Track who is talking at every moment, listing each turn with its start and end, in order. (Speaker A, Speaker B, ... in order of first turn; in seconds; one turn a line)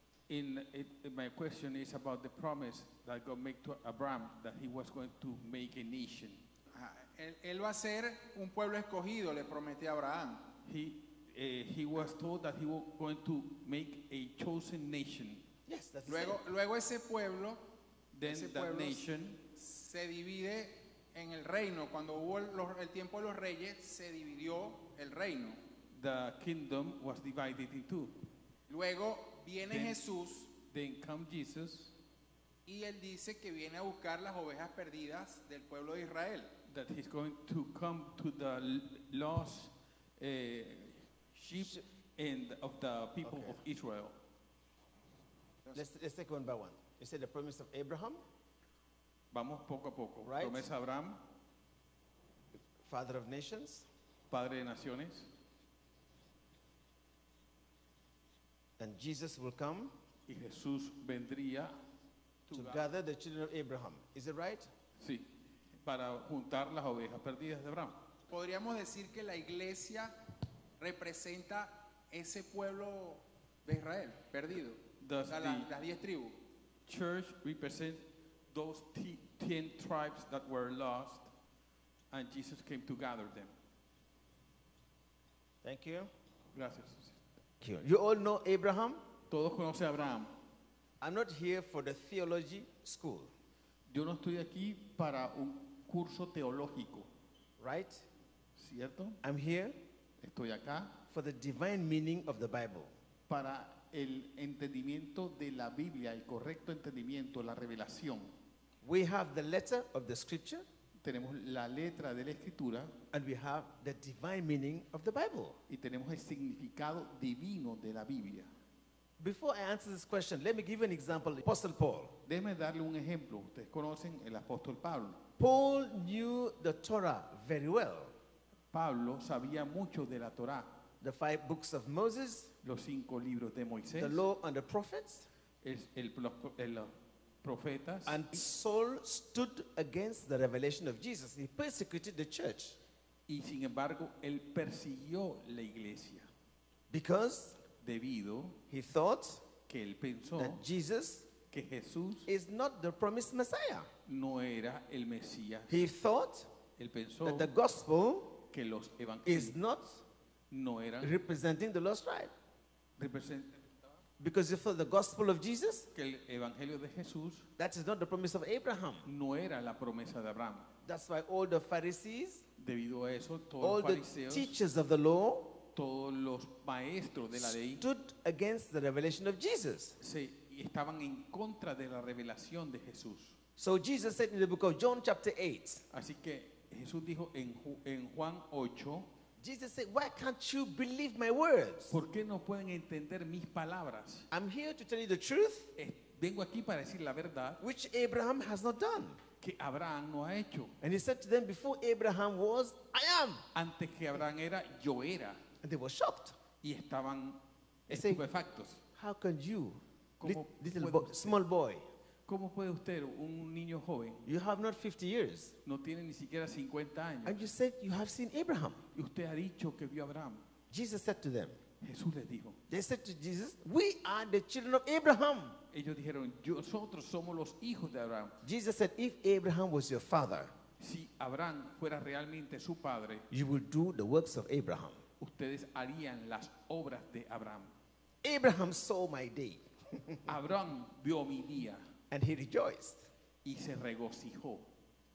Speaker A: 0.3-6.4
Speaker B: 6.7-10.5
Speaker A: 10.6-15.4
Speaker C: 15.7-16.4
Speaker B: 16.1-17.6
Speaker A: 18.1-19.4
Speaker B: 18.2-19.0
Speaker B: 19.6-25.6
Speaker A: 25.9-28.1
Speaker B: 28.7-30.5
Speaker A: 29.7-30.0
Speaker A: 30.7-31.9
Speaker B: 32.6-36.5
Speaker A: 36.7-44.1
Speaker C: 43.3-43.6
Speaker C: 45.7-48.2
Speaker A: 49.3-51.2
Speaker C: 50.2-50.6
Speaker C: 52.8-53.9
Speaker A: 54.3-55.3
Speaker C: 58.8-59.9
Speaker A: 60.3-61.7
Speaker A: 62.5-62.8
Speaker C: 62.5-64.7
Speaker A: 65.0-65.3
Speaker A: 65.8-68.0
Speaker B: 68.3-70.1
Speaker B: 70.8-76.4
Speaker A: 75.0-75.7
Speaker A: 76.9-81.3
Speaker A: 82.1-83.5
Speaker C: 85.6-86.1
Speaker A: 86.5-87.2
Speaker C: 87.6-89.0
Speaker A: 89.3-90.3
Speaker C: 91.0-93.3
Speaker A: 93.9-97.1
Speaker C: 97.6-98.0
Speaker A: 98.6-99.2
Speaker C: 99.2-99.8
Speaker A: 100.2-100.9
Speaker C: 101.1-102.9
Speaker A: 103.3-108.3
Speaker C: 108.8-110.6
Speaker A: 111.0-112.9
Speaker C: 113.1-115.6
Speaker A: 115.7-118.5
Speaker C: 119.2-122.2
Speaker A: 122.2-125.2
Speaker C: 125.4-128.1
Speaker A: 128.7-130.7
Speaker C: 131.0-132.5
Speaker A: 132.6-134.2
Speaker C: 134.0-135.3
Speaker A: 135.6-138.4
Speaker C: 138.1-142.8
Speaker A: 143.3-146.3
Speaker C: 146.9-147.6
Speaker A: 147.8-148.6
Speaker C: 148.7-149.4
Speaker A: 149.7-150.6
Speaker C: 150.4-151.3
Speaker A: 151.5-152.3
Speaker C: 152.3-153.9
Speaker A: 154.1-155.8
Speaker C: 155.7-156.5
Speaker A: 156.8-157.5
Speaker C: 157.2-158.4
Speaker A: 158.5-159.6
Speaker C: 159.2-160.0
Speaker A: 160.5-161.2
Speaker C: 161.0-162.3
Speaker A: 163.0-163.6
Speaker C: 164.2-165.9
Speaker A: 165.9-167.5
Speaker C: 167.6-169.0
Speaker A: 169.0-170.7
Speaker C: 170.8-172.4
Speaker A: 172.6-174.5
Speaker C: 173.6-175.6
Speaker A: 175.7-177.8
Speaker C: 177.3-180.0
Speaker A: 180.0-183.3
Speaker C: 183.6-185.8
Speaker A: 185.9-189.1
Speaker C: 189.4-191.9
Speaker A: 191.9-194.3
Speaker C: 194.3-195.7
Speaker A: 195.8-197.6
Speaker C: 197.6-199.2
Speaker A: 199.4-200.7
Speaker C: 200.8-203.4
Speaker A: 203.5-205.4
Speaker C: 205.6-206.3
Speaker A: 206.6-208.8
Speaker C: 207.9-208.2
Speaker C: 208.9-211.8
Speaker A: 210.2-211.4
Speaker A: 212.3-214.3
Speaker C: 214.2-215.5
Speaker A: 215.6-217.4
Speaker C: 217.2-218.8
Speaker A: 218.9-220.4
Speaker C: 220.7-221.6
Speaker A: 221.8-222.6
Speaker C: 222.7-225.6
Speaker A: 225.7-228.3
Speaker C: 228.4-230.5
Speaker A: 230.8-233.3
Speaker C: 233.3-235.0
Speaker A: 235.2-237.7
Speaker C: 238.2-240.2
Speaker A: 240.2-241.8
Speaker C: 242.1-243.0
Speaker A: 243.4-244.7